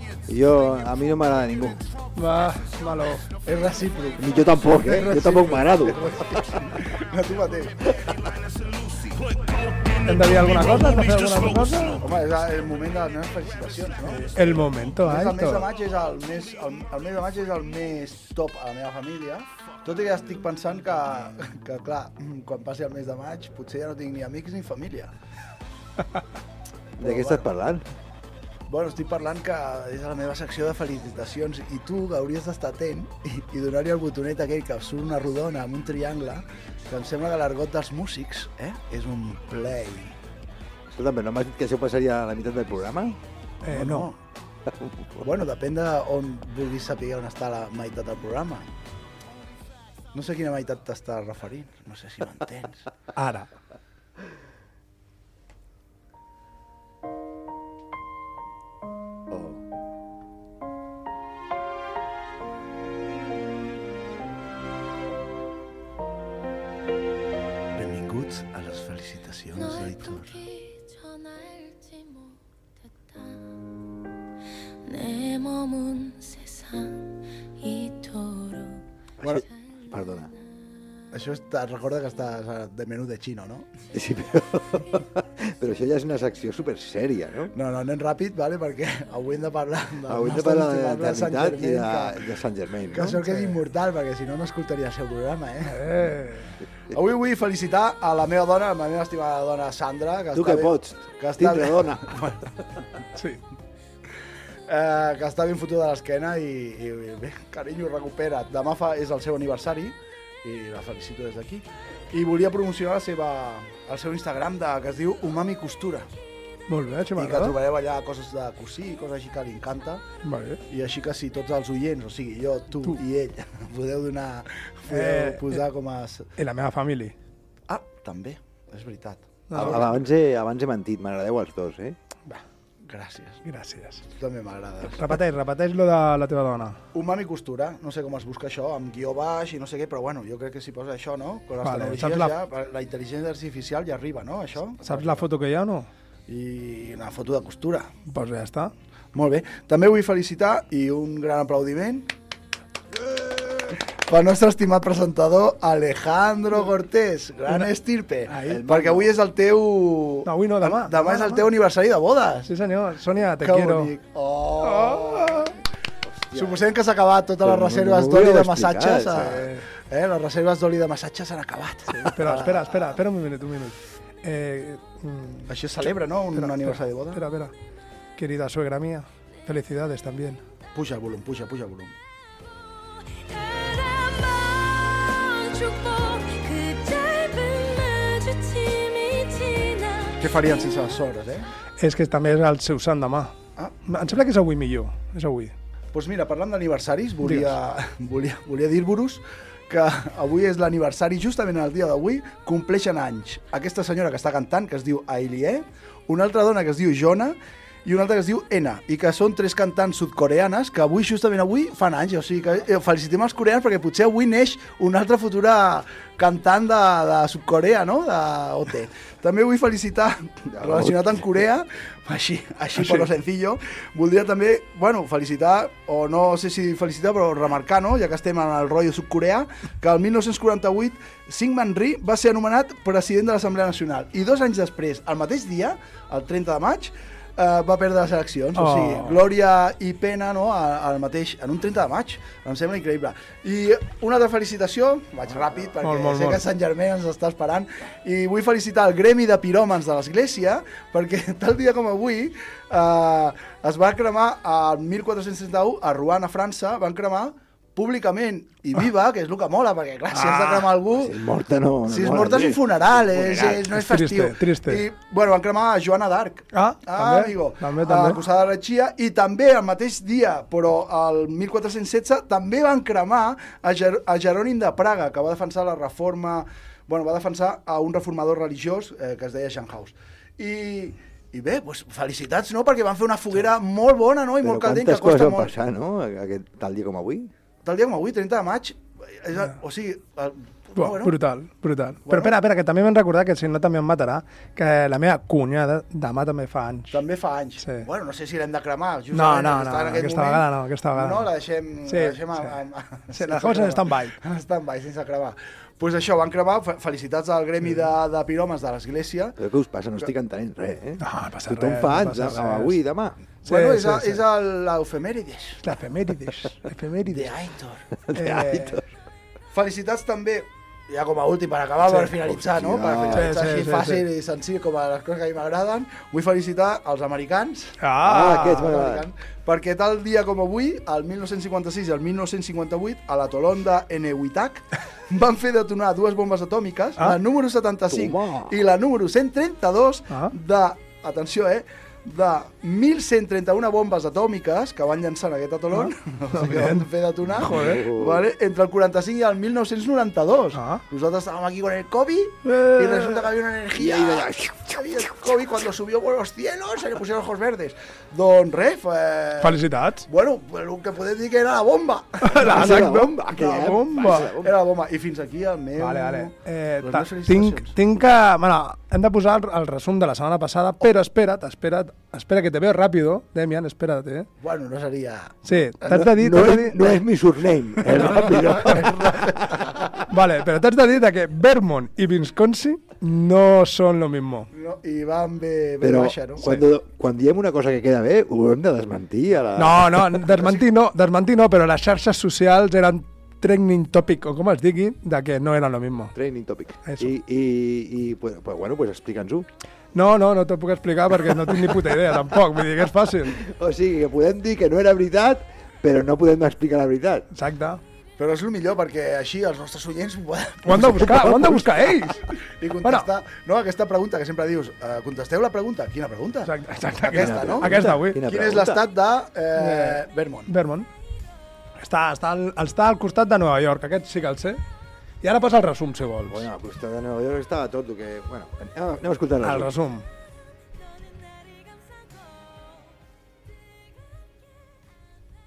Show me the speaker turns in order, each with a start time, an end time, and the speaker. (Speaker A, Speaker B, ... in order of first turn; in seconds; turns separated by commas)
Speaker A: 0.3-1.9, Speaker B: 2.2-3.2, Speaker C: 3.5-7.9, Speaker A: 4.2-6.6, Speaker D: 8.2-12.1, Speaker B: 10.1-12.0, Speaker C: 12.0-14.2, Speaker B: 14.1-15.7, Speaker C: 15.0-25.1, Speaker A: 27.0-27.8, Speaker C: 27.0-27.5, Speaker C: 28.7-40.1, Speaker A: 40.9-43.2, Speaker B: 43.6-44.1, Speaker C: 43.7-44.2, Speaker A: 44.7-45.2, Speaker C: 45.2-48.7, Speaker C: 50.1-52.9, Speaker B: 53.2-53.5, Speaker A: 59.3-59.6, Speaker C: 67.8-70.3, Speaker E: 69.5-73.5, Speaker E: 74.9-80.3, Speaker A: 79.2-80.3, Speaker C: 81.1-83.7, Speaker A: 83.9-87.5, Speaker C: 87.5-92.2, Speaker A: 90.1-93.2, Speaker C: 92.9-95.9, Speaker B: 93.2-93.5, Speaker B: 95.7-96.5, Speaker C: 96.9-102.4, Speaker A: 100.3-102.1, Speaker B: 103.2-103.4, Speaker C: 104.7-116.1, Speaker B: 116.7-117.6, Speaker C: 117.2-120.0, Speaker B: 120.2-120.6, Speaker C: 120.7-126.3, Speaker B: 124.9-125.6, Speaker B: 126.4-127.2, Speaker C: 127.7-129.9, Speaker B: 129.5-129.9, Speaker A: 129.6-132.0, Speaker C: 132.8-133.4, Speaker B: 133.4-134.0, Speaker C: 134.2-135.2, Speaker B: 134.9-136.8, Speaker C: 136.9-145.3, Speaker B: 141.6-142.3, Speaker B: 144.8-145.9, Speaker C: 146.3-147.9, Speaker B: 148.1-148.7, Speaker C: 149.1-152.1, Speaker C: 153.2-162.5, Speaker B: 158.3-159.0, Speaker A: 158.5-159.0, Speaker B: 160.2-161.5, Speaker B: 162.5-163.9, Speaker C: 163.4-165.5, Speaker B: 164.6-165.5, Speaker A: 166.1-166.7, Speaker C: 166.3-172.7, Speaker A: 167.4-169.5, Speaker B: 169.3-169.6, Speaker B: 171.9-175.5, Speaker C: 175.5-177.2, Speaker B: 176.3-177.5, Speaker B: 178.2-180.4, Speaker C: 180.7-181.9, Speaker E: 183.2-190.7, Speaker C: 190.2-191.5, Speaker B: 191.8-193.3, Speaker C: 193.6-193.8, Speaker B: 193.9-195.5, Speaker C: 195.9-261.1, Speaker B: 197.2-197.5, Speaker A: 220.5-221.4, Speaker B: 222.8-223.1, Speaker B: 238.6-239.2, Speaker B: 245.8-246.4, Speaker B: 260.1-260.7, Speaker A: 260.9-263.7, Speaker C: 261.9-285.5, Speaker B: 263.7-264.8, Speaker B: 266.5-268.2, Speaker A: 284.4-287.3, Speaker C: 287.6-291.2, Speaker B: 290.8-297.0, Speaker C: 292.1-292.4, Speaker C: 296.9-309.4, Speaker B: 299.1-301.3, Speaker B: 301.9-302.5, Speaker B: 303.1-304.2, Speaker A: 309.4-313.2, Speaker B: 311.0-312.8, Speaker C: 313.4-315.6, Speaker B: 313.5-314.2, Speaker B: 315.6-317.3, Speaker C: 317.1-317.9, Speaker A: 318.0-318.9, Speaker B: 318.1-318.8, Speaker C: 319.5-367.8, Speaker A: 322.0-323.3, Speaker B: 323.1-324.0, Speaker B: 327.8-328.7, Speaker A: 328.0-329.1, Speaker A: 337.9-338.6, Speaker B: 345.7-346.9, Speaker A: 347.4-348.3, Speaker B: 347.4-347.9, Speaker B: 350.6-350.8, Speaker B: 352.4-353.2, Speaker A: 353.8-355.3, Speaker B: 359.4-360.1, Speaker B: 362.2-364.3, Speaker A: 362.4-364.6, Speaker B: 365.8-374.3, Speaker C: 374.4-375.4, Speaker B: 375.4-376.8, Speaker A: 375.9-379.8, Speaker C: 377.8-379.9, Speaker B: 377.9-378.4, Speaker B: 380.1-384.5, Speaker C: 384.5-386.5, Speaker A: 385.8-390.4, Speaker B: 389.6-396.1, Speaker A: 396.1-399.5, Speaker B: 396.9-397.1, Speaker B: 399.9-403.4, Speaker A: 403.3-407.3, Speaker B: 407.3-407.8, Speaker C: 408.2-411.1, Speaker B: 410.6-412.3, Speaker A: 410.7-411.9, Speaker C: 412.5-420.5, Speaker B: 416.5-418.2, Speaker A: 417.1-418.9, Speaker B: 419.6-420.9, Speaker B: 421.8-424.6, Speaker B: 425.2-426.5, Speaker A: 426.3-429.7, Speaker B: 429.4-430.1